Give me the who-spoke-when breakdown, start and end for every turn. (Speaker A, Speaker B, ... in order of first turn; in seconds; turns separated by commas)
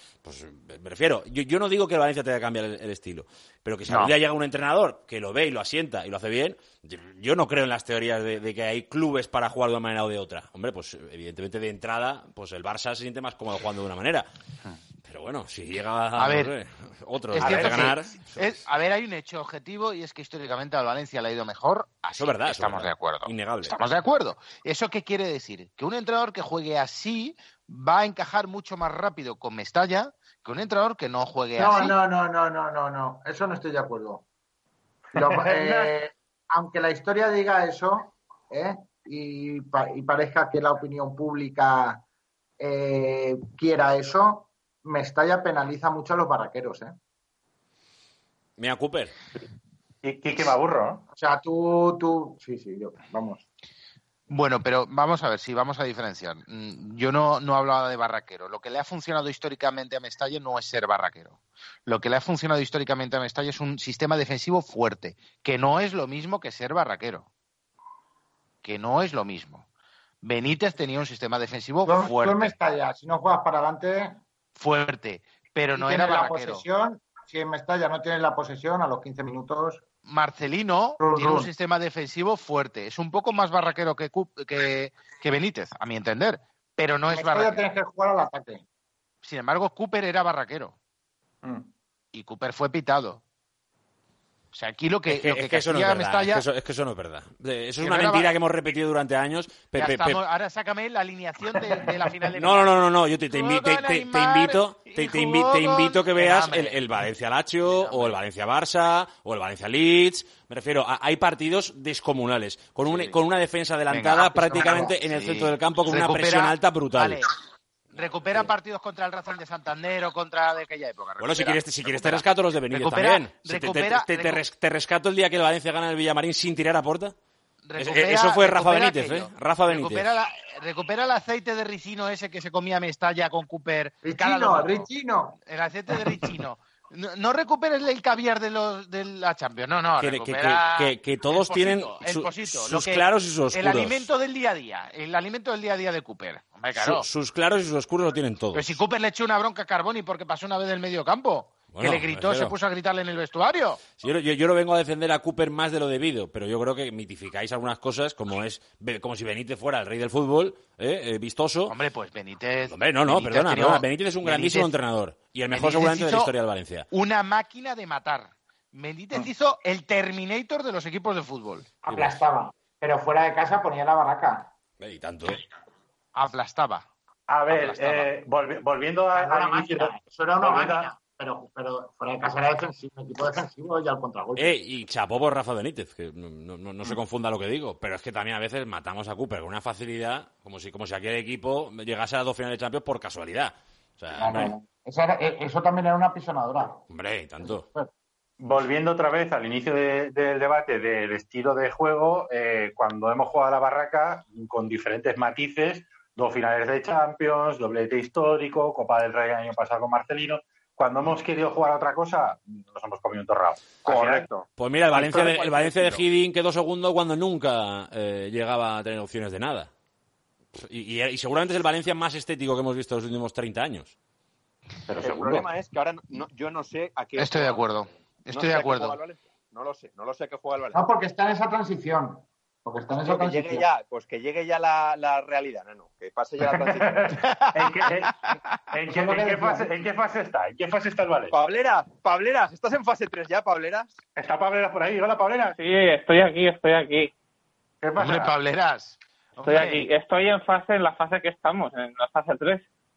Speaker A: 0.2-14.3, Speaker B: 3.9-4.1, Speaker A: 15.0-18.5, Speaker B: 16.1-16.5, Speaker B: 17.3-32.0, Speaker C: 17.4-17.9, Speaker A: 22.1-23.8, Speaker D: 31.6-34.2, Speaker C: 35.1-35.9, Speaker D: 35.1-42.0, Speaker D: 42.6-47.0, Speaker A: 48.6-49.1, Speaker C: 50.0-51.0, Speaker D: 51.1-53.4, Speaker B: 54.3-67.3, Speaker B: 68.6-69.6, Speaker B: 70.2-72.5, Speaker D: 71.8-74.2, Speaker B: 74.5-76.6, Speaker D: 75.7-79.8, Speaker B: 80.0-87.7, Speaker D: 81.0-81.5, Speaker D: 87.1-88.6, Speaker B: 89.2-90.7, Speaker C: 91.4-91.7, Speaker B: 92.1-93.2, Speaker B: 94.5-96.4, Speaker A: 95.1-100.2, Speaker B: 97.8-98.4, Speaker B: 99.7-102.7, Speaker A: 102.3-117.2, Speaker B: 103.3-106.9, Speaker B: 107.7-108.2, Speaker B: 112.8-113.2, Speaker B: 113.9-117.3, Speaker B: 117.9-124.4, Speaker A: 121.2-127.1, Speaker B: 127.6-134.9, Speaker A: 127.8-130.1, Speaker D: 134.0-135.4, Speaker B: 135.4-147.1, Speaker A: 140.0-144.1, Speaker A: 146.7-148.8, Speaker B: 148.5-153.8, Speaker A: 151.7-152.5, Speaker A: 154.0-161.8, Speaker B: 161.7-164.7, Speaker A: 162.7-166.8, Speaker B: 165.5-166.3, Speaker B: 166.9-171.7, Speaker D: 171.8-174.5, Speaker A: 171.9-172.2, Speaker A: 174.8-175.4, Speaker B: 176.1-176.9, Speaker C: 177.3-180.9, Speaker B: 177.5-178.1, Speaker D: 179.1-184.5, Speaker A: 184.3-194.5, Speaker D: 194.2-196.8, Speaker A: 196.9-197.7, Speaker D: 197.4-197.9, Speaker C: 198.4-214.3, Speaker E: 213.8-216.0, Speaker A: 214.6-219.7, Speaker A: 220.5-223.9, Speaker C: 224.9-225.5, Speaker E: 225.0-230.8, Speaker B: 227.2-229.0, Speaker D: 230.7-233.7, Speaker E: 233.0-237.3, Speaker C: 236.5-241.3, Speaker D: 238.9-239.8, Speaker E: 241.3-243.9, Speaker C: 244.2-245.6, Speaker F: 245.6-247.1, Speaker C: 247.8-248.3, Speaker B: 248.0-249.8, Speaker F: 249.4-252.6